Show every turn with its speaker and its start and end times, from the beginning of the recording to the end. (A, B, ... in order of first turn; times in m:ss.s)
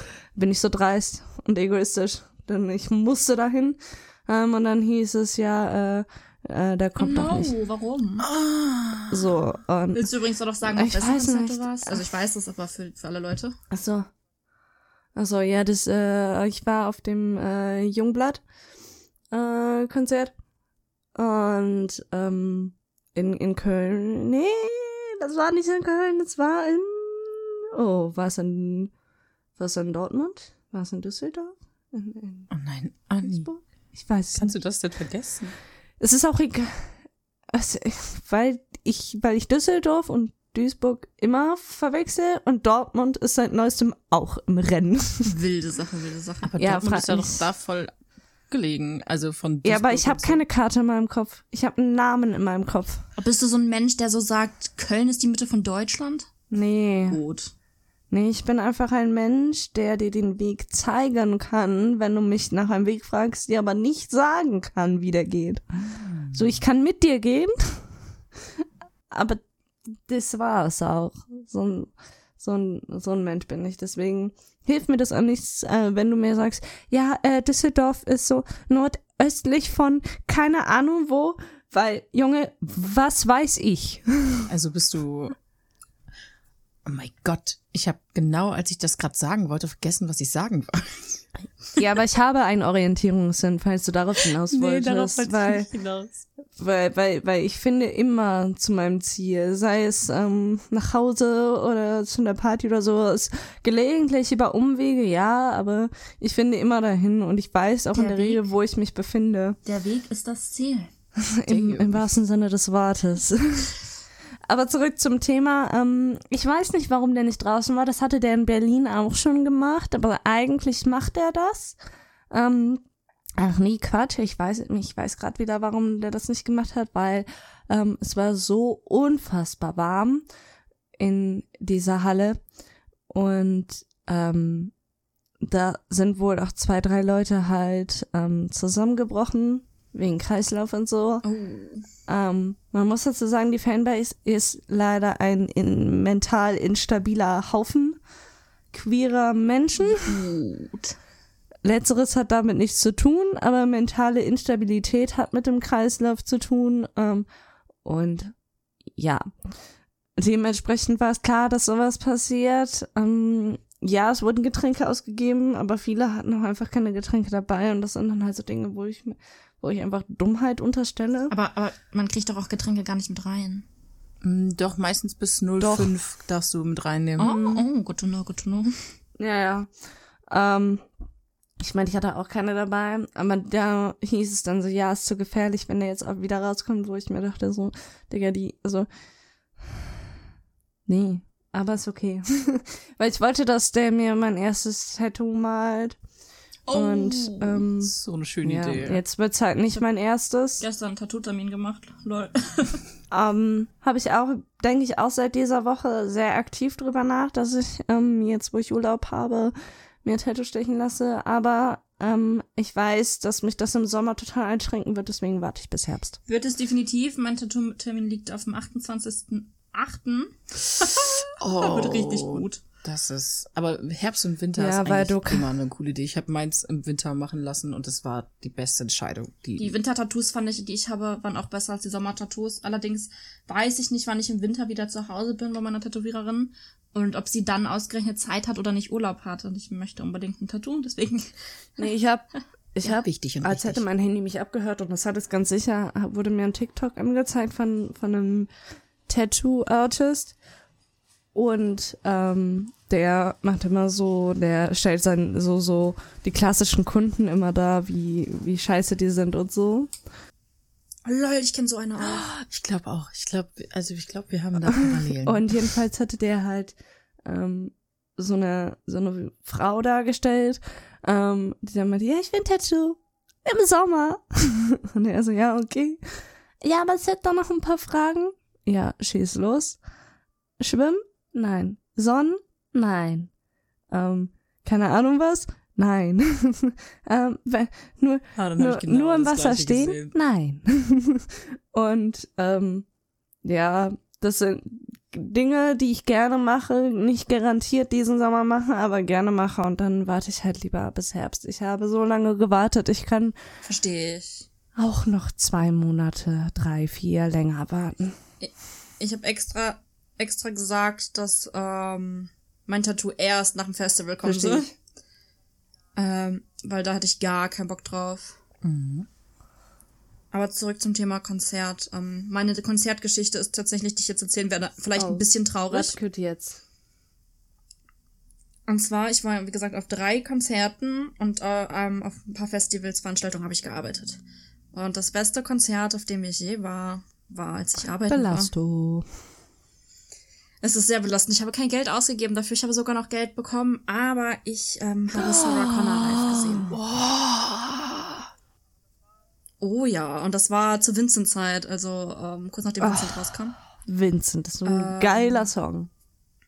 0:00.3-0:07.5 A
0:07.0-0:08.3 B
0:08.2-0:09.4 C
0:09.1-0:10.0 A
0:09.9-0:13.5 B
0:10.7-0:12.0 A
0:13.7-0:14.1 A
0:15.1-0:18.4 A
0:19.3-0:20.3 A
0:21.1-0:28.9 A
0:29.6-0:32.5 A
0:32.5-0:33.5 C
0:33.2-0:34.5 A
0:34.3-0:35.5 C
0:36.0-0:36.9 A
0:37.5-0:45.3 A
0:45.2-0:46.5 B
0:46.4-0:47.9 C
0:46.6-0:47.4 A
0:48.5-0:50.4 C
0:49.6-0:53.0 A
0:53.2-0:56.3 B
0:56.5-0:57.2 A
0:57.1-0:57.5 B
0:58.1-1:05.6 A
1:05.9-1:06.4 C
1:06.3-1:07.9 A
1:08.6-1:09.4 A
1:10.0-1:24.5 A
1:24.5-1:25.3 C
1:26.8-1:31.5 C
1:31.8-1:35.7 A
1:34.5-1:36.2 C
1:36.6-1:49.6 A
1:47.9-1:48.4 B
1:49.6-1:50.9 B
1:51.2-1:53.8 A
1:51.5-1:52.0 C
1:54.5-2:01.8 A
2:02.3-2:02.8 A
2:03.4-2:10.2 A
2:11.0-2:12.4 A
2:13.1-2:14.7 A
2:15.4-2:21.2 A
2:21.2-2:21.8 B
2:22.1-2:28.0 A
2:28.7-2:30.2 A
2:29.8-2:31.0 B
2:31.6-2:37.2 A
2:37.8-2:38.3 A
2:39.0-2:39.3 A
2:40.2-2:51.3 A
2:51.3-2:53.6 B
2:54.2-2:57.6 C
2:55.6-2:55.9 A
2:57.2-2:58.8 B
2:57.2-2:57.5 A
2:59.2-2:59.7 A
3:00.3-3:00.8 A
3:01.6-3:08.9 A
3:10.9-3:16.0 A
3:16.7-3:17.6 B
3:16.7-3:20.6 A
3:17.8-3:19.0 C
3:20.6-3:22.8 B
3:23.1-3:36.2 A
3:36.3-3:42.6 B
3:41.4-3:49.7 C
3:44.6-3:45.4 A
3:49.6-4:01.9 B
4:01.8-4:08.5 A
4:02.8-4:03.8 C
4:09.1-4:10.4 A
4:11.3-4:19.9 A
4:21.0-4:22.3 B
4:22.0-4:25.6 C
4:24.8-4:36.0 A
4:36.6-4:39.8 A
4:40.6-4:43.3 A
4:43.9-4:52.8 A
4:48.4-4:50.1 C
4:53.4-5:03.3 A
5:03.6-5:04.4 B
5:04.8-5:08.2 A
5:08.4-5:14.7 B
5:14.2-5:14.6 A
5:16.0-5:18.4 B
5:18.6-5:19.1 C
5:20.3-5:26.0 B
5:25.0-5:26.6 A
5:28.7-5:34.2 B
5:34.7-5:38.5 B
5:38.1-5:39.1 A
5:40.6-5:46.7 B
5:45.1-5:46.8 A
5:46.7-5:48.2 C
5:49.6-5:53.6 B
5:52.8-5:55.9 A
5:54.6-5:55.5 B